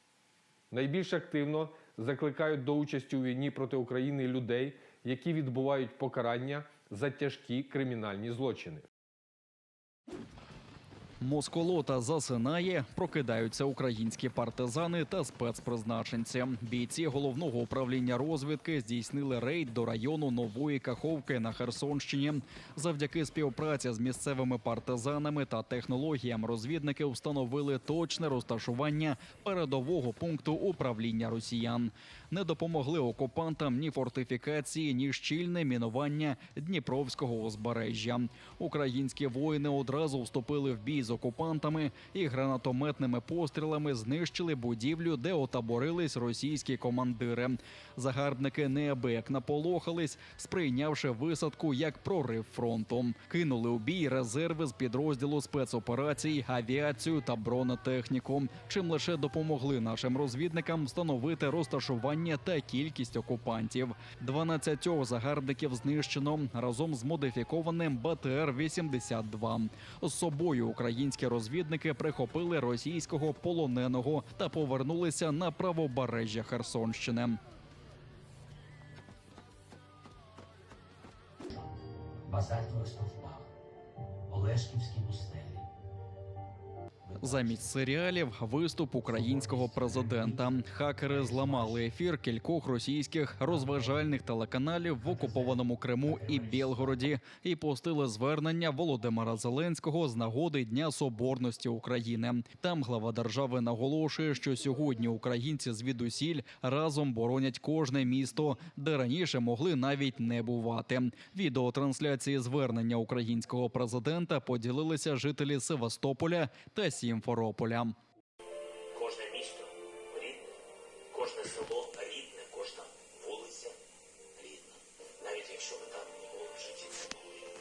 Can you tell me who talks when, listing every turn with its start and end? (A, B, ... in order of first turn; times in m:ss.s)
0:00.7-0:08.8 A
0:11.2-1:17.4 B
1:22.2-1:23.5 C
1:24.3-1:25.7 C
1:27.2-1:58.0 B
1:29.3-1:30.6 C
1:36.3-1:36.7 C
1:58.9-2:00.4 D
2:01.1-2:03.7 D
2:04.4-2:07.2 D